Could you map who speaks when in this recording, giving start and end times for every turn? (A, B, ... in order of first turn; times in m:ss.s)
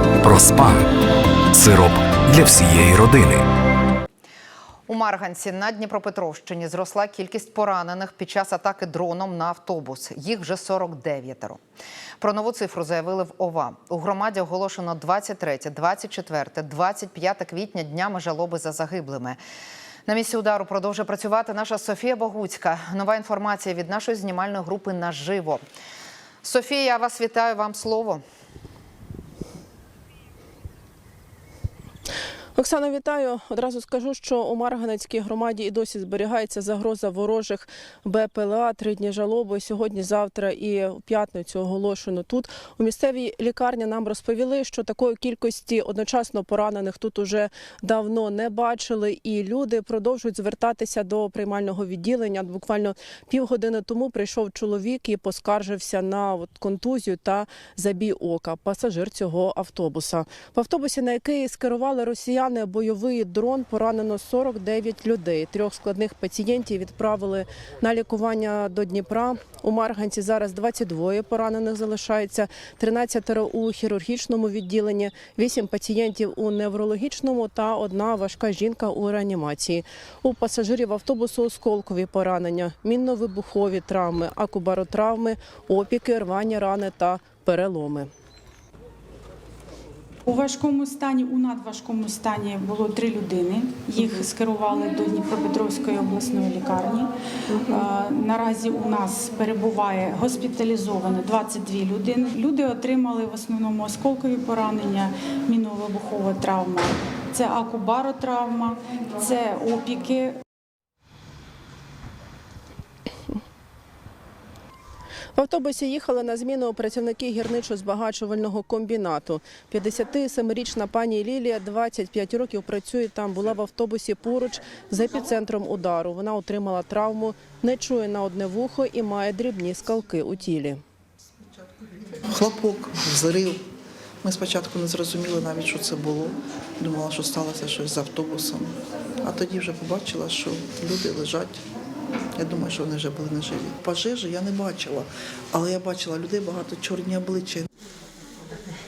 0:00.2-0:00.9 A
0:01.5-0:03.5 A
0:04.9-0:11.6 B
0:12.2-0:19.4 B
0:20.1-0:25.6 B
0:26.4-0:28.2 B
0:32.6-1:28.1 C
1:30.2-1:50.4 D
1:55.3-2:10.8 C
2:12.3-2:13.6 E
2:14.2-2:21.6 E
2:22.4-2:27.6 E